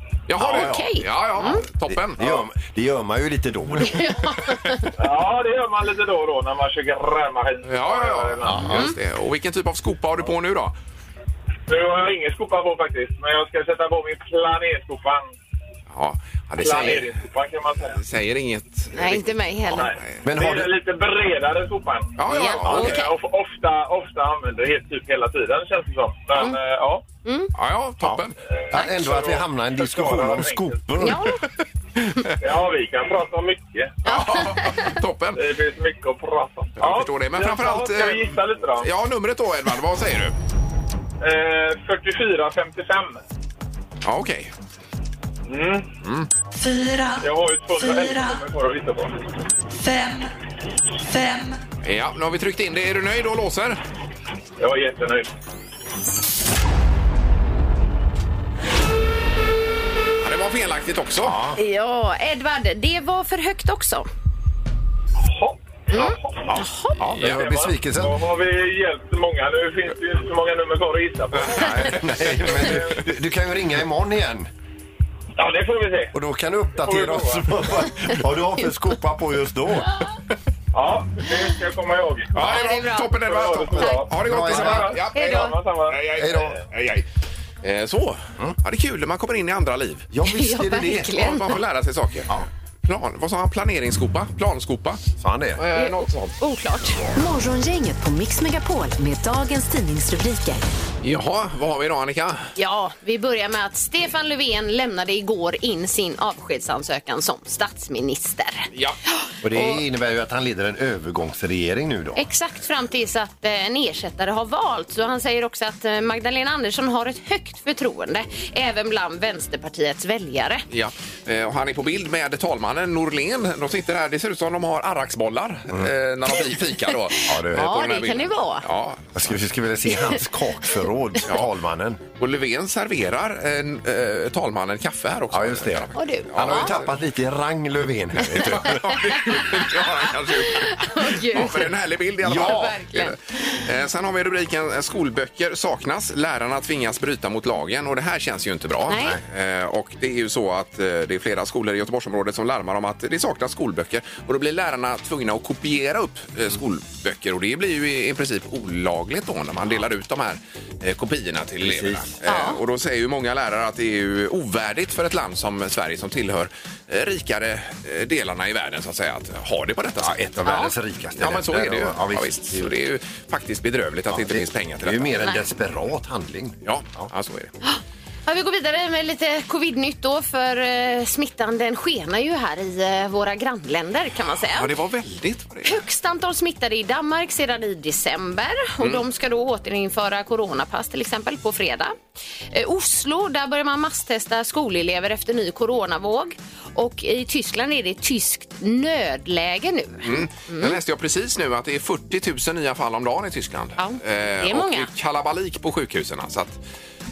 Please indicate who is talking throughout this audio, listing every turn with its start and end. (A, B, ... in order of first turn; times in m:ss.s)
0:00.3-0:02.4 A
0:00.4-0:00.8 B
0:00.4-0:01.6 C
0:01.9-0:04.2 B
0:03.8-0:04.9 C
0:05.0-0:08.8 D
0:07.6-0:10.8 A
0:08.4-0:08.9 B
0:11.7-0:15.3 D
0:15.9-0:17.1 A
0:16.6-0:18.0 D
0:18.0-0:20.2 A
0:19.0-0:19.9 C
0:19.8-0:22.2 D
0:20.2-0:20.7 B
0:22.2-0:23.1 A
0:22.3-0:23.1 C
0:22.6-0:22.9 B
0:22.7-0:27.0 D
0:27.2-0:27.5 C
0:27.6-0:28.4 A
0:28.0-0:31.4 B
0:28.6-0:30.8 D
0:31.0-0:31.4 C
0:32.4-0:34.0 D
0:34.0-0:35.0 C
0:34.0-0:35.4 A
0:35.4-0:38.9 D
0:36.8-0:40.4 A
0:41.2-0:43.2 D
0:44.0-0:44.5 A
0:45.5-0:45.9 D
0:46.0-0:46.3 A
0:47.2-0:49.2 D
0:51.8-0:53.8 A
0:54.6-0:55.3 D
1:00.2-1:01.4 A
1:01.2-1:01.6 B
1:01.6-1:04.1 C
1:05.2-1:06.6 D
1:05.9-1:07.0 C
1:07.0-1:08.2 B
1:07.2-1:12.8 D
1:11.4-1:12.8 A
1:11.8-1:14.5 B
1:15.4-1:16.1 D
1:16.1-1:20.0 B
1:16.8-1:17.6 D
1:20.7-1:22.6 D
1:22.3-1:27.0 A
1:22.4-1:23.2 C
1:23.2-1:26.1 D
1:23.8-1:24.0 C
1:24.2-1:25.0 B
1:25.1-1:25.6 C
1:26.2-1:26.6 B
1:27.6-1:30.1 A
1:30.1-1:31.2 B
1:30.2-1:31.5 C
1:31.1-1:32.3 A
1:32.8-1:35.0 A
1:35.2-1:35.6 B
1:35.6-1:36.4 A
1:35.8-1:37.1 C
1:37.2-1:40.6 E
1:41.0-1:42.5 A
1:42.6-1:49.8 C
1:49.4-1:52.2 B
1:52.2-2:00.6 C
2:00.7-2:09.3 A
2:07.2-2:07.8 B
2:07.3-2:08.6 C
2:09.2-2:12.0 B
2:12.2-2:16.9 A
2:15.3-2:19.2 B
2:16.0-2:16.8 C
2:18.2-2:50.2 A
2:19.1-2:19.6 C
2:20.3-2:21.7 C
2:22.2-2:22.8 B
2:22.3-2:23.6 C
2:28.9-2:29.2 C
2:28.9-2:29.2 B
2:41.6-2:42.1 B
2:42.2-2:42.6 C
2:50.0-2:52.7 B
2:50.5-2:50.7 C
2:51.2-2:55.2 A
2:54.1-2:57.1 B
2:56.6-2:57.5 A
2:57.6-3:04.7 C
3:04.4-3:05.8 A
3:05.6-3:12.0 C
3:12.5-3:20.8 C
3:20.0-3:26.6 A
3:23.8-3:24.9 C